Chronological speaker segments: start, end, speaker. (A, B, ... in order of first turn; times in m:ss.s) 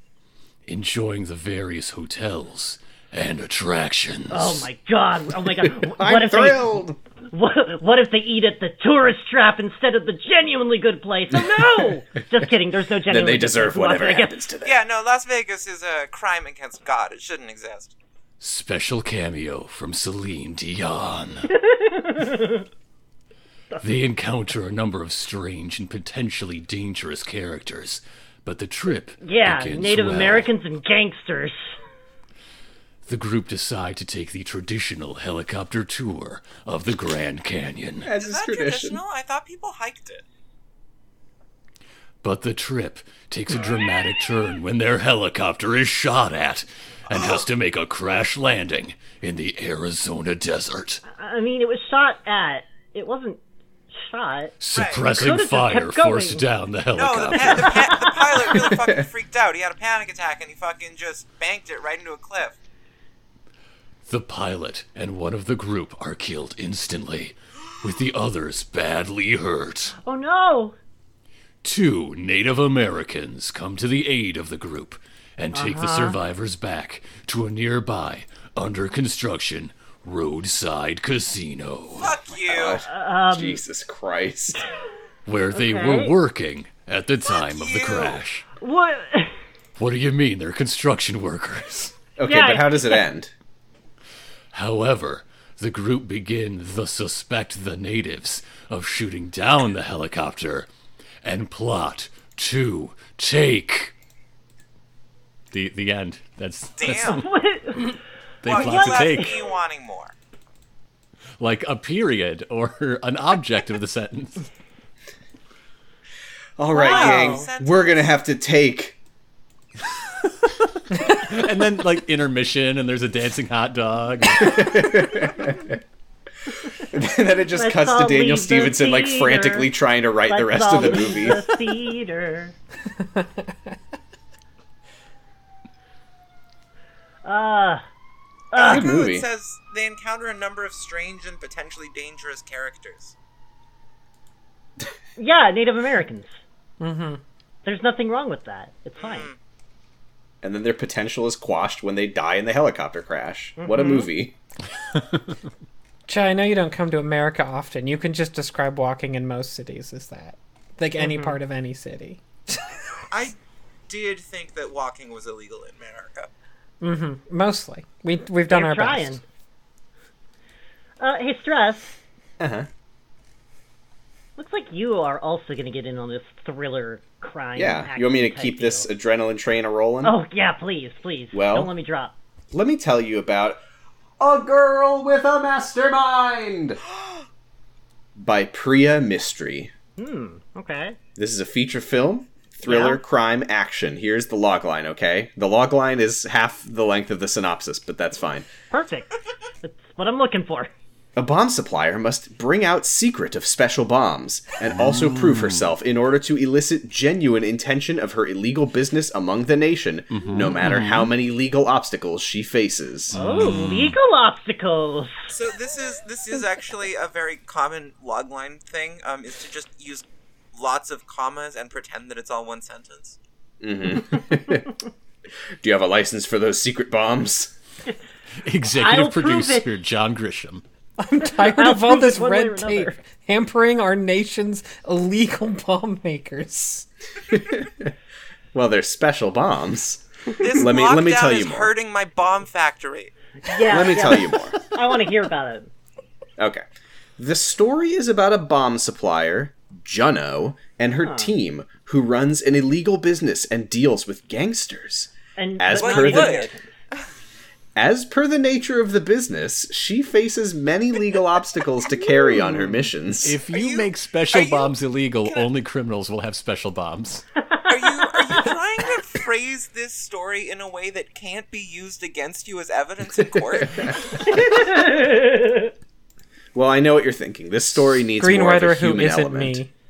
0:00.6-0:04.6 A
0:04.3-0:06.8 B
0:05.8-0:07.0 C
0:07.3-0:14.4 B
0:13.1-0:14.8 C
0:14.6-0:17.9 D
0:18.4-0:21.5 A
0:21.6-0:22.7 B
0:23.8-0:30.5 A
0:29.2-0:31.6 B
0:33.0-0:38.1 A
0:38.0-0:39.0 C
0:38.1-0:40.2 D
0:42.2-0:51.0 A
0:51.0-0:53.4 B
0:53.9-0:54.6 B
0:54.6-0:57.9 A
0:54.7-0:55.2 D
0:55.1-0:56.4 B
0:56.9-1:02.6 D
0:58.4-0:59.0 C
1:04.0-1:09.9 A
1:10.0-1:10.7 B
1:11.6-1:22.2 A
1:15.5-1:16.2 B
1:21.9-1:22.8 D
1:22.4-1:24.6 C
1:22.8-1:23.6 B
1:25.2-1:28.4 A
1:25.5-1:26.1 B
1:27.3-1:28.2 D
1:28.6-1:29.3 B
1:29.8-1:31.9 A
1:32.2-1:33.3 C
1:32.2-1:33.0 B
1:34.5-1:40.7 A
1:41.2-1:43.9 A
1:45.5-1:47.2 A
1:46.8-1:47.2 D
1:47.1-1:48.0 B
1:48.4-1:49.4 A
1:48.4-1:50.1 D
1:48.5-1:49.4 B
1:51.4-1:54.4 A
1:56.6-1:59.0 C
1:56.7-1:57.5 B
1:56.7-1:58.2 D
2:00.9-2:04.6 A
2:04.4-2:05.8 C
2:06.9-2:11.5 C
2:07.6-2:09.7 B
2:10.2-2:12.5 B
2:13.0-2:13.5 E
2:17.2-2:17.8 B
2:18.5-2:18.8 B
2:18.5-2:23.1 D
2:18.6-2:19.3 C
2:25.2-2:26.4 B
2:26.8-2:27.2 E
2:27.6-2:29.3 B
2:29.0-2:29.4 D
2:30.4-2:34.3 C
2:33.6-2:34.1 B
2:36.1-2:42.6 E
2:41.0-2:41.4 B
2:43.1-2:43.4 D
2:43.9-2:46.3 D
2:46.8-2:49.2 E
2:48.5-2:49.2 B
2:51.0-2:51.9 B
2:52.4-2:52.7 C
2:54.4-2:58.8 B
2:57.6-3:00.2 C
3:00.0-3:02.1 B
3:01.3-3:01.7 C
3:02.5-3:03.6 C
3:04.2-3:06.8 C
3:08.2-3:09.7 C
3:10.0-3:11.0 B
3:11.2-3:18.5 C
3:12.6-3:13.0 B
3:18.7-3:20.7 B
3:21.2-3:33.2 C
3:24.7-3:25.7 A
3:30.1-3:31.1 A
3:33.1-3:34.0 A
3:33.2-3:35.1 B
3:35.3-3:43.2 D
3:43.6-3:44.7 C
3:45.6-3:47.5 C
3:48.4-3:50.6 A
3:48.7-3:49.7 B
3:51.0-3:56.9 E
3:51.4-3:53.0 B
3:57.3-3:57.9 C
3:58.5-4:00.0 C
4:00.4-4:03.1 D
4:00.6-4:01.7 C
4:03.4-4:05.7 B
4:03.7-4:04.6 C
4:06.4-4:06.6 C
4:07.2-4:16.5 C
4:11.0-4:11.3 B
4:15.4-4:16.7 B
4:15.7-4:16.5 D
4:17.7-4:23.4 C
4:22.2-4:22.8 B
4:23.2-4:27.2 A
4:23.4-4:25.5 D
4:27.5-4:28.5 B
4:27.7-4:34.0 D
4:33.2-4:33.9 C
4:34.2-4:35.7 B
4:36.5-4:39.6 C
4:38.2-4:39.7 E